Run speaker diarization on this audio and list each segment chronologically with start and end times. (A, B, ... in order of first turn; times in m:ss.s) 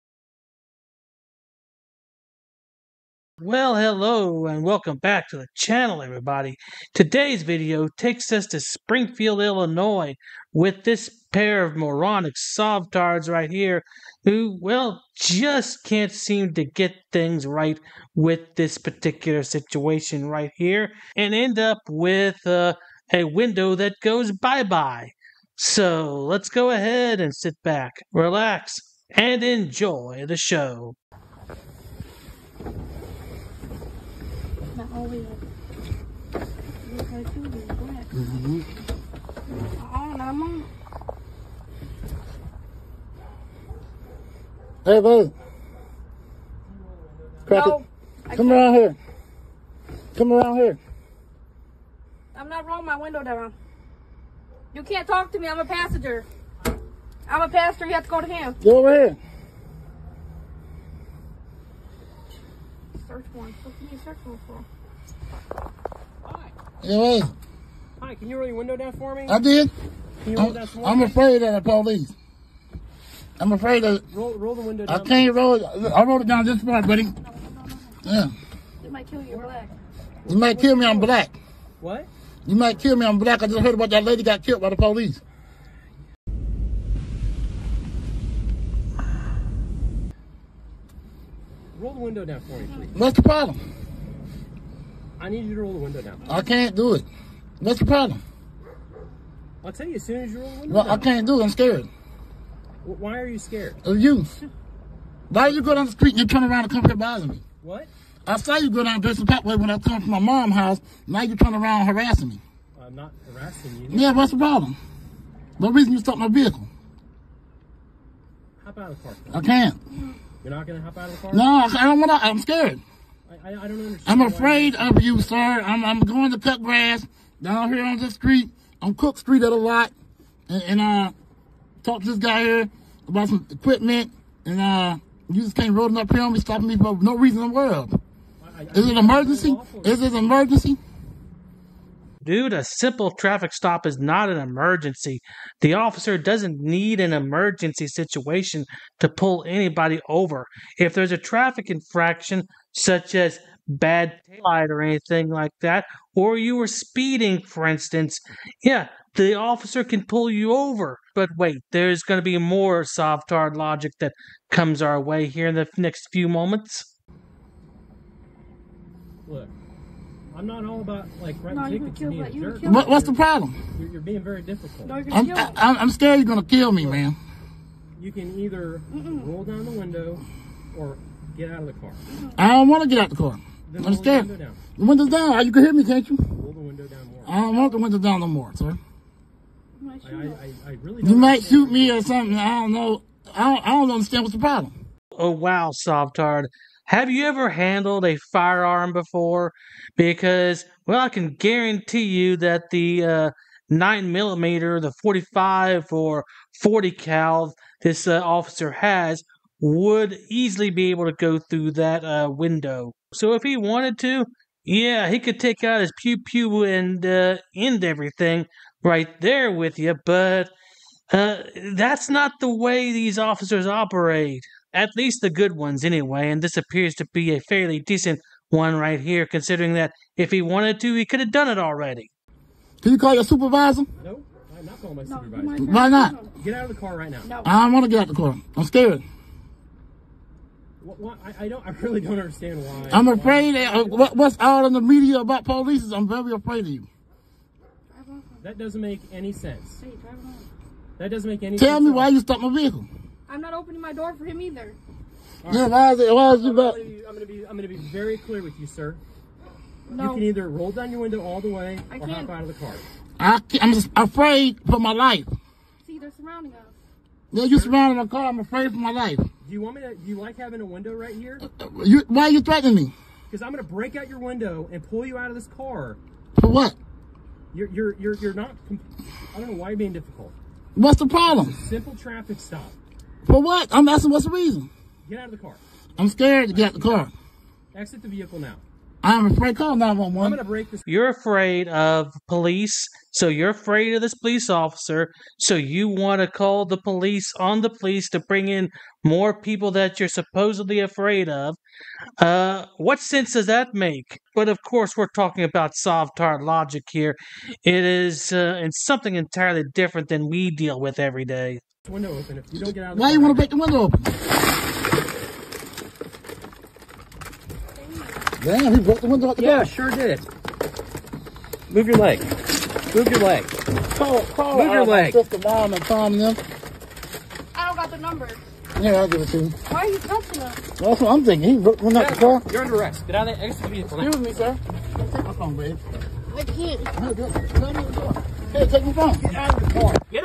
0:03.4-0:31.0 A
0:34.7-0:35.4 B
0:36.8-0:38.1 B
0:38.2-0:38.6 C
0:39.8-0:40.7 B
0:44.8-0:45.3 C
0:47.5-0:47.8 C
0:47.5-0:48.6 B
0:48.3-0:49.0 C
0:50.1-0:50.8 C
0:52.3-0:53.5 B
0:54.7-0:56.2 B
0:57.3-0:58.6 B
0:58.6-0:59.2 C
1:03.0-1:04.6 B
1:06.8-1:07.3 C
1:08.0-1:09.4 D
1:09.3-1:09.7 C
1:10.2-1:11.2 D
1:10.3-1:12.1 C
1:13.4-1:14.0 C
1:14.1-1:15.3 D
1:14.9-1:17.1 C
1:17.2-1:17.9 B
1:18.0-1:18.3 C
1:18.8-1:19.7 B
1:20.2-1:21.1 D
1:20.3-1:21.3 C
1:21.8-1:22.1 D
1:22.4-1:25.2 C
1:31.7-1:32.9 D
1:32.9-1:33.6 C
1:35.2-1:36.3 D
1:36.2-1:37.0 C
1:37.6-1:38.2 C
1:39.6-1:41.1 D
1:40.7-1:41.9 C
1:42.8-1:43.8 D
1:43.8-1:44.3 C
1:45.3-1:47.4 C
1:45.4-1:45.8 D
1:47.6-1:47.9 D
1:48.2-1:52.4 C
1:52.7-1:54.3 D
1:53.9-1:54.8 C
1:55.6-1:56.7 C
1:58.6-1:59.4 D
1:59.3-1:59.8 C
2:00.4-2:01.5 D
2:01.3-2:02.8 C
2:03.2-2:05.1 D
2:04.0-2:09.9 C
2:10.5-2:11.1 C
2:11.8-2:18.0 C
2:18.4-2:20.1 D
2:18.7-2:20.8 C
2:22.2-2:46.9 A
2:49.2-2:49.5 D
2:50.3-2:53.2 D
2:51.5-2:52.9 B
2:52.6-2:53.6 C
2:53.7-2:55.0 D
2:54.8-2:55.6 B
2:55.1-2:57.2 C
2:56.8-2:57.0 D
2:58.0-3:02.0 D
2:58.9-2:59.3 B
3:02.4-3:06.3 C
3:03.7-3:04.6 D
3:06.3-3:07.4 D
3:07.2-3:08.8 C
3:09.8-3:10.4 B
3:10.0-3:12.4 D
3:11.0-3:14.7 C
3:15.1-3:40.5 A
3:41.1-3:52.1 A
3:52.8-3:53.9 C
3:54.0-3:55.7 D
3:55.0-3:56.3 B
3:55.6-3:56.1 C
3:56.3-3:57.3 D
3:57.2-3:57.5 B
3:57.4-3:59.0 C
4:00.8-4:04.2 D
4:02.9-4:06.8 C
4:07.9-4:08.4 B
4:08.4-4:09.8 D
4:09.8-4:10.5 B
4:11.0-4:12.1 D
4:11.6-4:12.9 C
4:13.3-4:14.8 B
4:15.4-4:19.0 D
4:15.5-4:16.8 C
4:19.9-4:20.2 B
4:19.9-4:22.8 D
4:21.9-4:22.3 B
4:23.2-4:25.3 C
4:25.8-4:26.7 B
4:27.3-4:29.3 C
4:27.5-4:27.8 D
4:29.4-4:31.4 D
4:31.5-4:32.9 C
4:33.3-4:36.0 D
4:36.3-4:36.8 C
4:37.5-4:40.4 D
4:40.7-4:41.6 C
4:41.2-4:42.8 D
4:43.2-4:44.7 C
4:45.0-4:47.1 D
4:46.0-4:47.1 C
4:47.7-4:48.6 D
4:49.0-4:50.4 C
4:50.2-4:50.9 D
4:50.8-5:01.6 A
5:02.2-5:11.6 A
5:11.8-5:13.5 D
5:12.9-5:14.1 C
5:17.8-5:18.2 B
5:18.4-5:19.7 C
5:19.4-5:20.2 D
5:21.7-5:22.2 D
5:22.9-5:23.5 D
5:23.9-5:26.4 C
5:24.5-5:25.2 D
5:27.5-5:28.4 B
5:28.8-5:29.6 C
5:29.7-5:30.6 B
5:30.8-5:32.4 C
5:31.9-5:34.1 D
5:34.0-5:35.8 C
5:36.3-5:36.9 B
5:37.0-5:39.3 C
5:39.1-5:40.0 D